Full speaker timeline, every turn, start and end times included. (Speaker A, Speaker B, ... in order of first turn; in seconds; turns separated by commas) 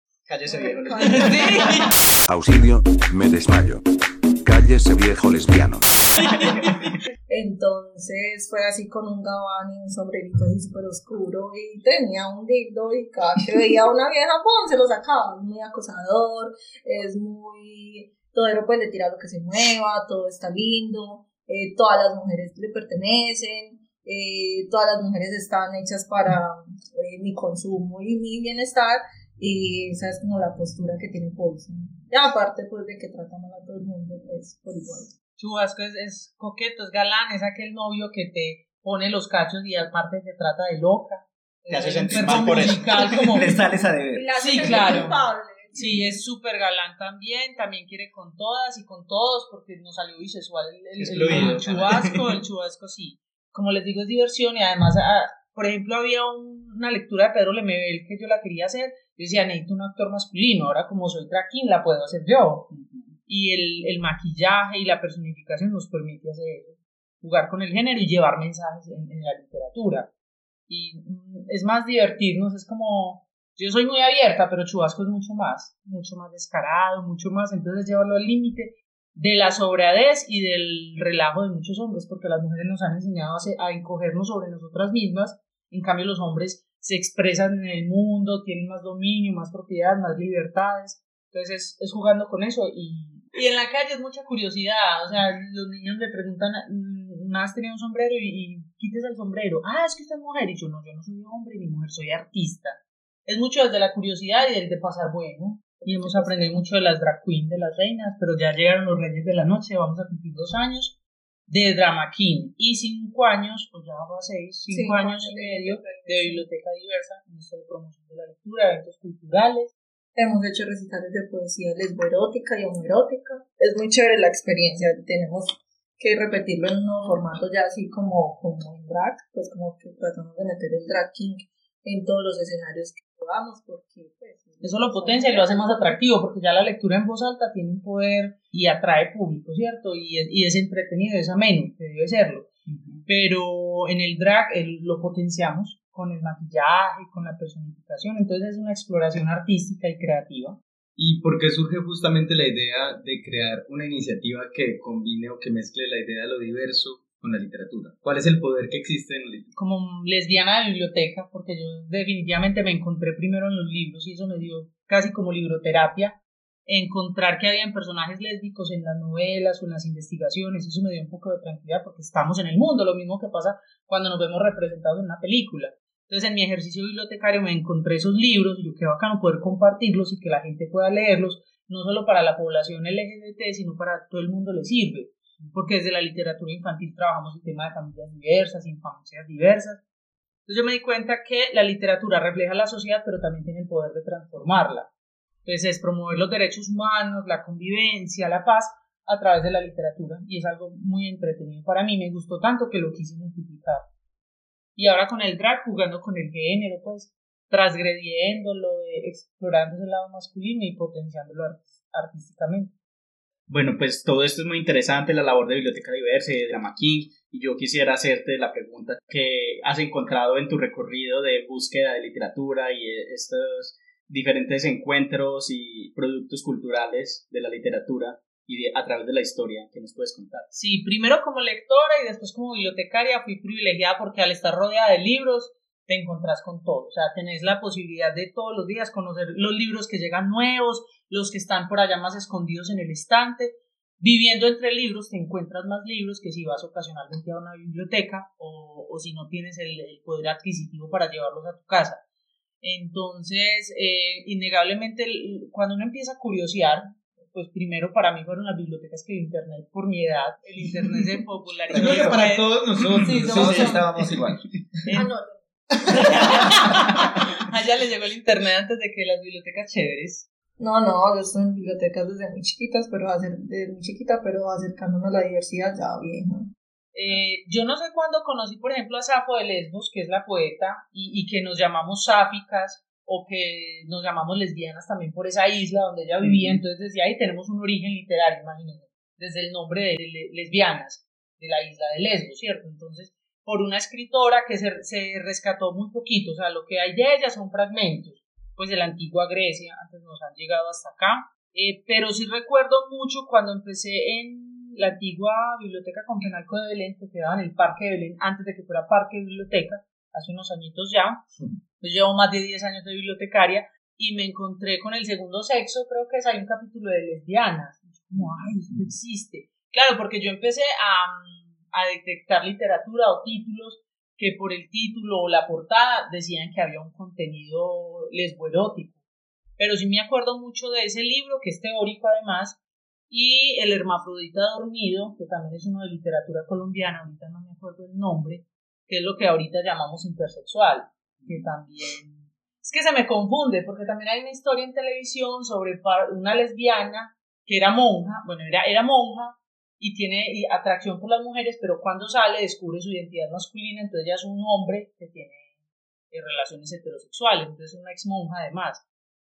Speaker A: 0.3-1.8, Speaker B: 0.4-1.8, Speaker C: 1.0-1.9, Speaker D: 2.3-3.8, Speaker D: 4.4-6.1, Speaker C: 6.2-6.7, Speaker B: 7.3-35.1, Speaker C: 35.4-43.6, Speaker A: 41.7-43.0, Speaker B: 42.1-42.6, Speaker E: 42.5-45.1, Speaker B: 44.1-46.1, Speaker C: 44.4-45.2, Speaker C: 45.7-62.7, Speaker A: 51.0-52.3, Speaker A: 62.7-63.2, Speaker C: 63.3-70.1, Speaker C: 70.7-111.0, Speaker B: 105.8-106.7, Speaker C: 111.5-119.7, Speaker B: 114.7-116.5, Speaker B: 120.2-135.7, Speaker C: 134.6-142.5, Speaker A: 142.7-143.1, Speaker C: 143.1-150.6, Speaker F: 151.0-159.5, Speaker C: 159.5-189.8, Speaker C: 190.5-194.9, Speaker C: 195.4-203.9, Speaker C: 204.8-212.7, Speaker A: 213.5-230.5, Speaker C: 230.5-252.0, Speaker C: 252.6-263.9, Speaker E: 261.7-262.2, Speaker F: 261.7-264.0, Speaker E: 263.1-264.4, Speaker B: 264.9-265.5, Speaker C: 265.9-270.2, Speaker B: 270.6-276.5, Speaker C: 276.9-311.2, Speaker A: 286.2-286.6, Speaker C: 311.8-329.0, Speaker C: 329.6-332.6, Speaker C: 333.1-355.5, Speaker C: 356.1-358.8